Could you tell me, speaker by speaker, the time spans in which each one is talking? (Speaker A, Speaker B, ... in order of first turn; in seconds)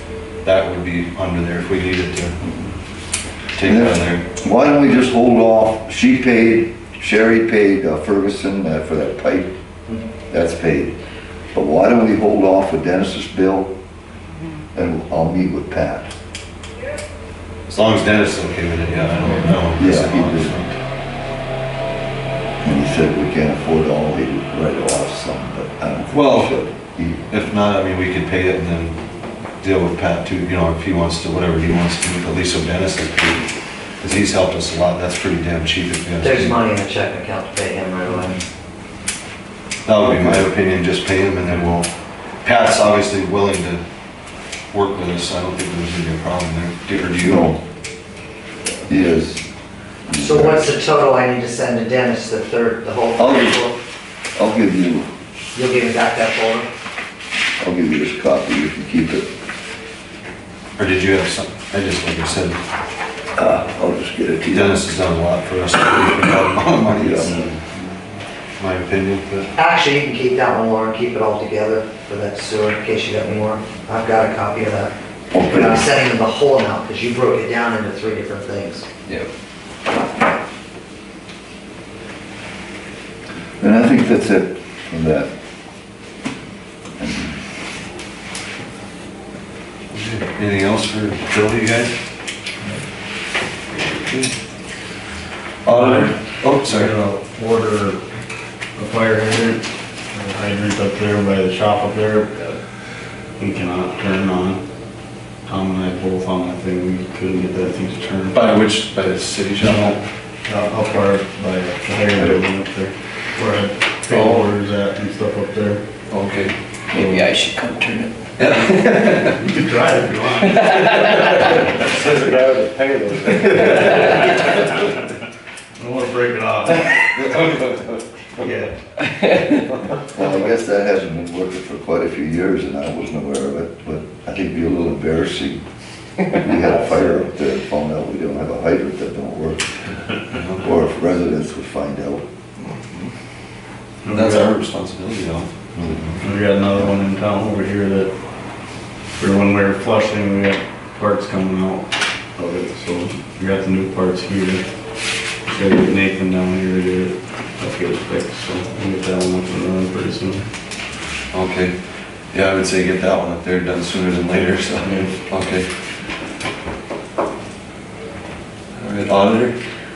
Speaker A: 0.4-2.4, 3.5-4.2, 17.7-20.8, 26.1-26.6, 27.3-29.0, 29.6-33.5, 34.0-36.6, 39.8-41.9, 42.4-43.8, 44.7-47.5, 60.8-62.6, 64.5-67.5, 68.6-69.5, 89.9-91.9, 93.9-94.3, 95.6-96.9, 108.3-110.0, 116.1-116.5, 118.4-119.4, 121.0-122.5, 123.4-124.3, 127.1-128.4, 140.3-140.6, 144.1-146.2, 161.3-161.7, 162.3-165.7, 168.7-169.6
Speaker B: 3.6-9.5, 10.3-10.9, 11.5-13.7, 14.7-16.1, 19.7-20.6, 22.6-27.2, 40.0-40.5, 47.2-47.6, 48.9-49.5, 50.1-50.7, 53.2-53.6, 54.3-55.1, 57.6-59.3, 63.3-64.8, 66.9-67.5, 75.3-75.9, 83.6-85.3, 87.0-87.4, 130.1-135.6, 136.3-139.7, 140.6-142.2
Speaker C: 36.2-38.4, 50.2-53.8, 55.5-56.7, 69.5-78.8
Speaker D: 95.7-98.0, 98.8-102.5, 103.4-104.6, 105.5-108.4, 109.6-115.8, 119.4-121.6, 125.8-127.0, 128.4-128.7, 144.0-144.5, 146.2-148.1, 149.2-154.7, 155.4-160.4, 164.8-165.1
Speaker E: 114.1-114.5, 116.9-118.1, 120.6-121.2
Speaker F: 122.1-124.1, 136.8-137.2